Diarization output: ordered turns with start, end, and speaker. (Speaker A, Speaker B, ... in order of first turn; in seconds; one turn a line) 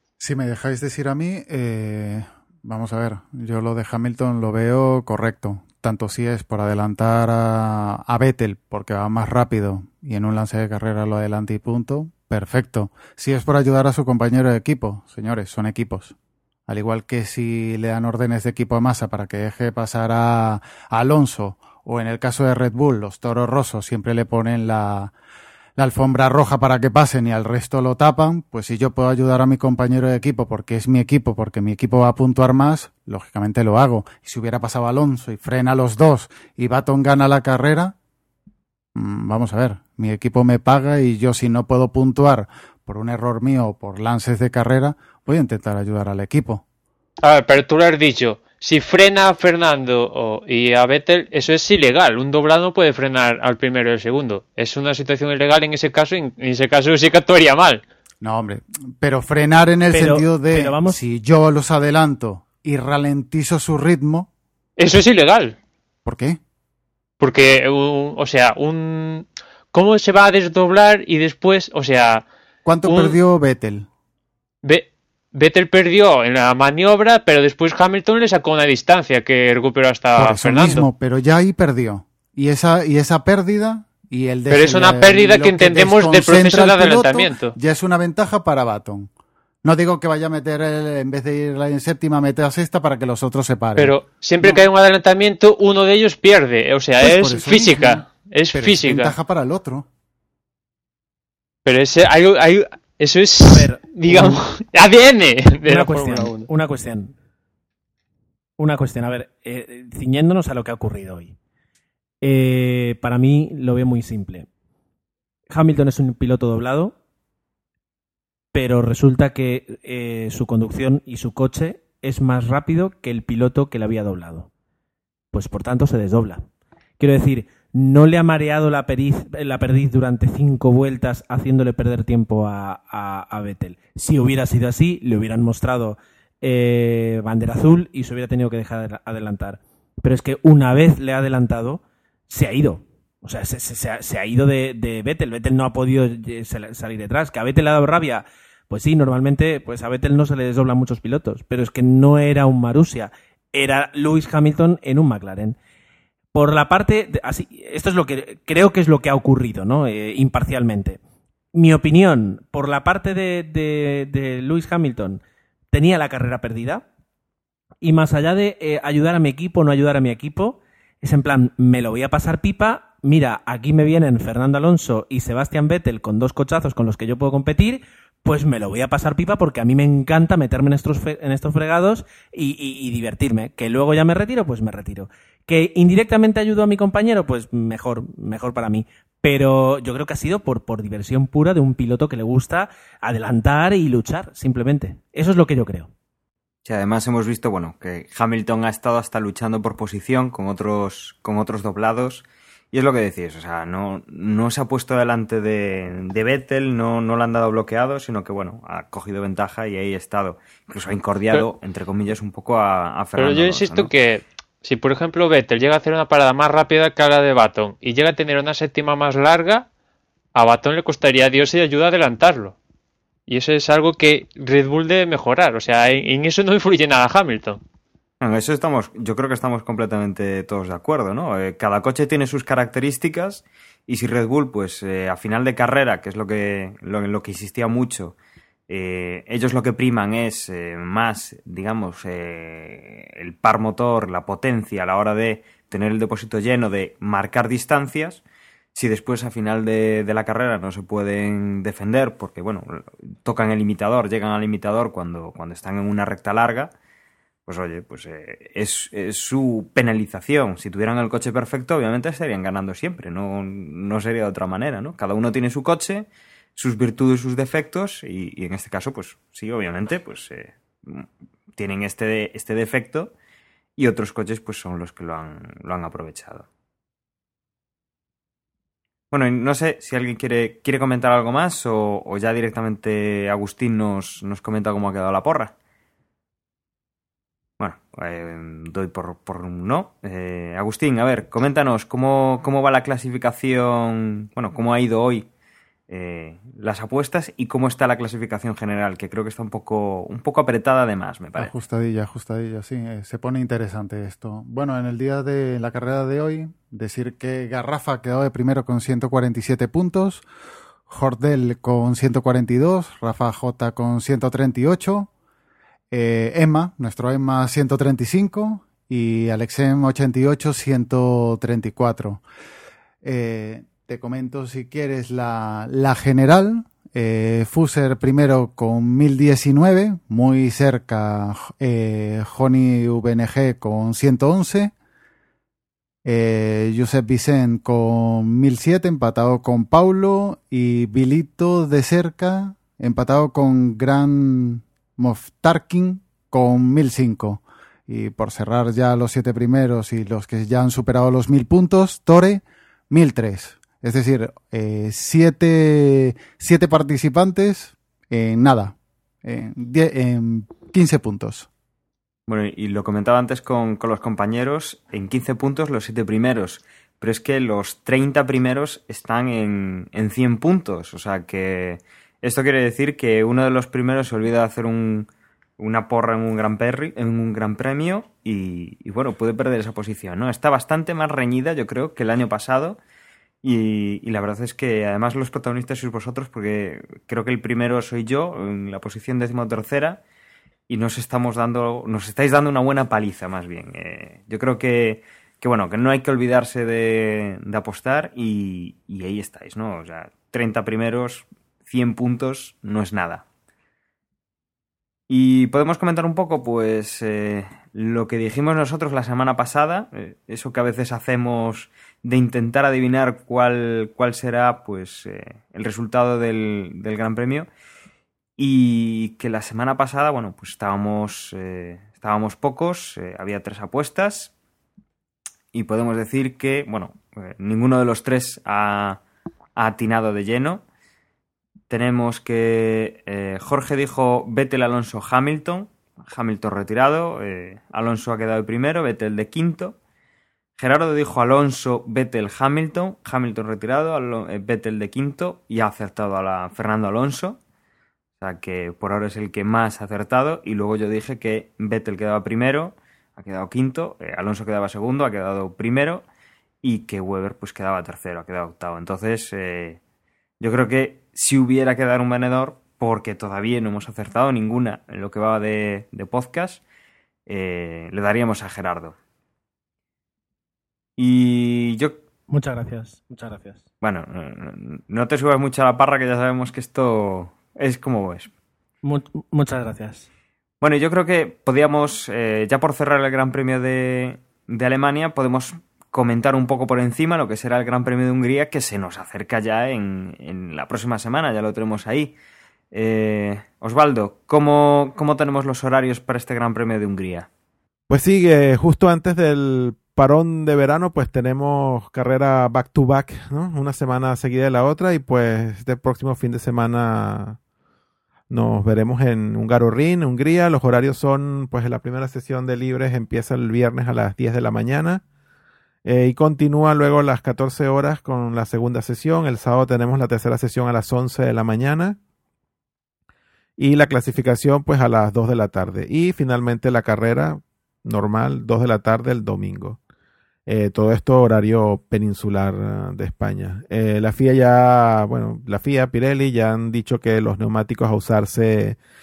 Speaker A: 0.2-16.1
Speaker A: 16.7-25.1
Speaker A: 25.8-37.9
Speaker A: 38.9-46.6
Speaker B: 47.2-57.8
Speaker A: 58.2-64.3
Speaker C: 59.9-61.0
Speaker B: 64.8-65.5
Speaker A: 66.0-66.4
Speaker B: 67.2-72.2
Speaker A: 72.6-73.9
Speaker B: 72.8-73.2
Speaker B: 74.6-80.9
Speaker A: 80.2-89.1
Speaker B: 84.5-87.5
Speaker A: 89.6-94.6
Speaker B: 93.8-99.2
Speaker A: 97.0-99.8
Speaker B: 101.6-106.5
Speaker C: 103.5-104.4
Speaker C: 105.7-107.1
Speaker C: 108.6-111.3
Speaker C: 112.2-114.5
Speaker C: 115.5-116.9
Speaker C: 118.5-124.5
Speaker C: 125.3-126.5
Speaker C: 127.0-155.6
Speaker C: 156.3-161.0
Speaker C: 161.5-165.2
Speaker C: 165.7-166.8
Speaker C: 167.8-195.9
Speaker D: 196.6-213.9
Speaker B: 213.2-219.7
Speaker B: 220.3-222.6
Speaker B: 223.3-227.6
Speaker D: 228.2-238.2
Speaker D: 238.7-248.2
Speaker D: 248.7-256.7
Speaker D: 257.5-273.1
Speaker D: 273.8-276.4
Speaker D: 279.1-285.5
Speaker D: 287.6-295.3
Speaker D: 295.9-301.5
Speaker A: 301.4-310.2
Speaker A: 310.9-315.1
Speaker A: 315.9-322.2
Speaker A: 323.0-334.7
Speaker A: 336.0-361.5
Speaker D: 362.3-382.8
Speaker D: 383.4-390.0
Speaker D: 390.7-403.2
Speaker D: 405.1-417.5
Speaker D: 418.4-424.3
Speaker D: 425.5-429.0
Speaker D: 429.6-430.6
Speaker D: 431.7-439.8
Speaker D: 440.6-447.4
Speaker D: 448.2-456.1
Speaker D: 456.6-459.8
Speaker D: 460.4-466.6
Speaker D: 467.3-468.9
Speaker D: 471.0-472.0
Speaker C: 472.3-473.6
Speaker D: 473.8-478.3
Speaker C: 478.8-480.1
Speaker D: 480.6-492.1
Speaker D: 492.7-497.3
Speaker E: 497.9-507.4
Speaker E: 508.3-515.0
Speaker E: 515.8-522.0
Speaker E: 523.6-529.8
Speaker E: 530.5-538.8